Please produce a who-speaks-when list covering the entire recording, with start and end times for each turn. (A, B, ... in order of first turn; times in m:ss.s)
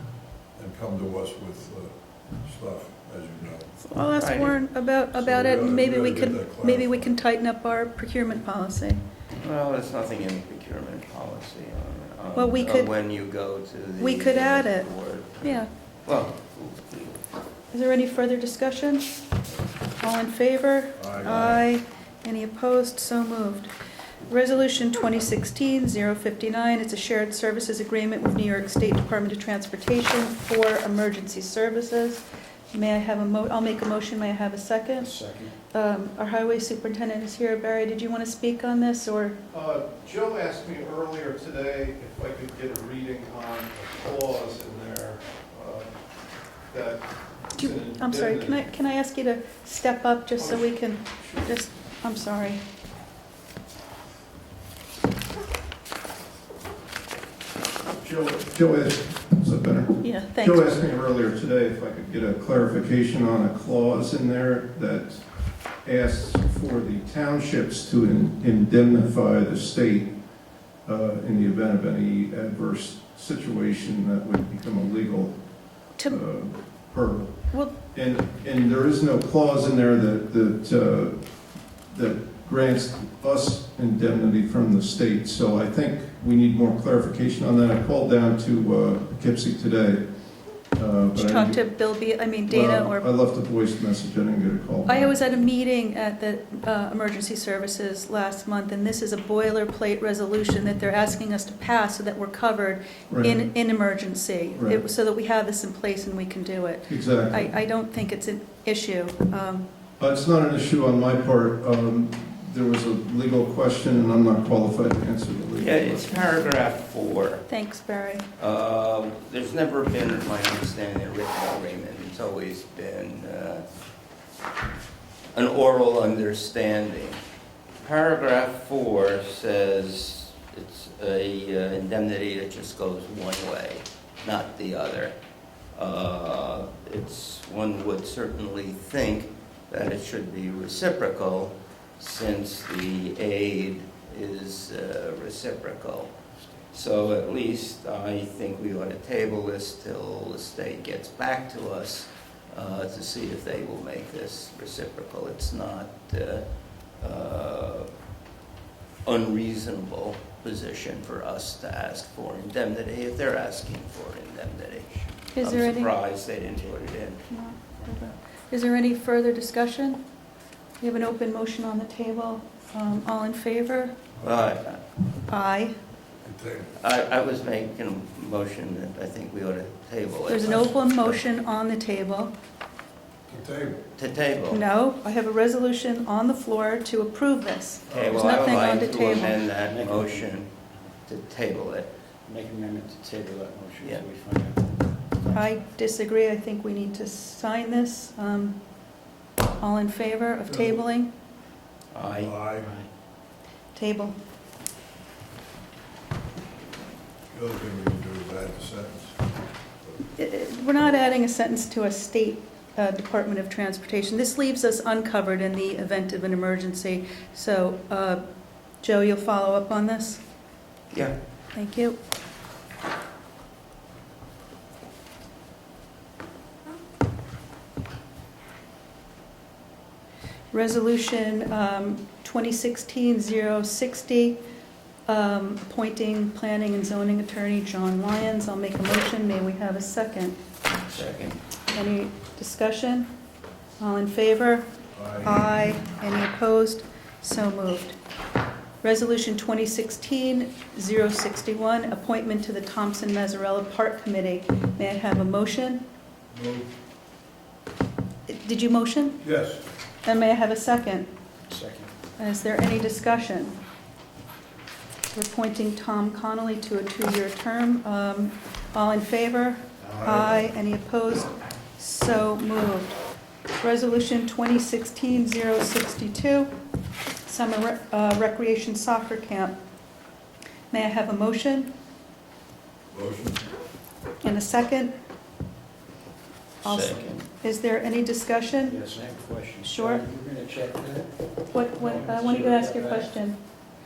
0:00.6-0:03.7 A
0:03.8-0:09.0 B
0:04.1-0:04.6 C
0:05.1-0:07.1 A
0:09.4-0:17.2 C
0:12.4-0:12.9 B
0:14.0-0:14.9 B
0:15.4-0:15.7 B
0:17.7-0:19.2 B
0:20.0-0:23.7 B
0:21.0-0:21.6 A
0:24.3-0:35.1 B
0:35.0-0:35.5 D
0:35.7-0:39.4 B
0:39.5-0:45.9 E
0:46.7-0:48.7 E
0:47.6-0:52.6 B
0:50.4-0:51.5 E
0:58.0-1:05.2 E
1:00.0-1:00.7 B
1:05.8-1:10.1 E
1:10.9-1:15.4 E
1:16.0-1:21.2 E
1:21.9-1:30.0 E
1:30.7-1:31.6 E
1:31.2-1:33.1 B
1:32.5-1:35.2 E
1:34.9-1:49.7 B
1:43.1-1:43.4 E
1:44.5-1:44.8 E
1:46.9-1:47.6 E
1:50.0-1:56.3 E
1:55.6-1:57.4 C
1:57.5-1:58.3 B
1:58.4-2:03.6 C
2:05.3-2:07.2 C
2:07.8-2:15.2 C
2:15.8-2:26.1 C
2:26.7-2:36.5 C
2:37.0-2:37.9 C
2:39.0-2:47.2 C
2:45.4-2:45.9 B
2:47.3-2:50.0 B
2:50.8-2:54.0 B
2:54.2-2:54.8 C
2:55.3-2:55.8 B
2:56.2-2:56.7 A
2:56.8-3:01.1 C
3:00.3-3:02.3 B
3:03.3-3:03.8 A
3:04.0-3:04.6 C
3:04.5-3:09.4 B
3:07.9-3:10.5 C
3:07.9-3:08.2 A
3:09.6-3:10.9 D
3:11.1-3:11.9 C
3:12.3-3:15.4 D
3:15.3-3:18.6 B
3:19.6-3:21.1 B
3:20.5-3:20.8 A
3:21.9-3:22.3 C
3:22.2-3:22.7 A
3:22.6-3:22.9 D
3:23.8-3:24.2 B
3:27.3-3:29.2 A
3:30.2-3:38.2 B
3:38.8-3:40.2 B
3:41.5-3:42.0 B
3:50.5-3:54.4 B
3:55.1-4:00.4 B
4:00.8-4:01.4 C
4:01.7-4:03.1 B
4:03.8-4:04.7 B
4:04.9-4:05.4 A
4:05.2-4:08.0 B
4:08.8-4:15.8 B
4:16.3-4:16.7 A
4:18.3-4:19.2 B
4:19.2-4:19.6 A
4:20.0-4:21.1 B
4:21.5-4:21.9 D
4:22.2-4:23.6 B
4:25.1-4:33.0 B
4:29.8-4:30.5 D
4:33.6-4:36.5 B
4:37.2-4:39.6 B
4:40.7-4:41.7 B
4:42.9-4:43.4 A
4:44.2-4:44.9 B
4:46.6-4:47.2 C
4:46.6-4:48.8 B
4:48.7-4:51.1 D
4:49.6-4:50.0 B
4:51.5-4:53.4 B
4:51.8-4:53.1 D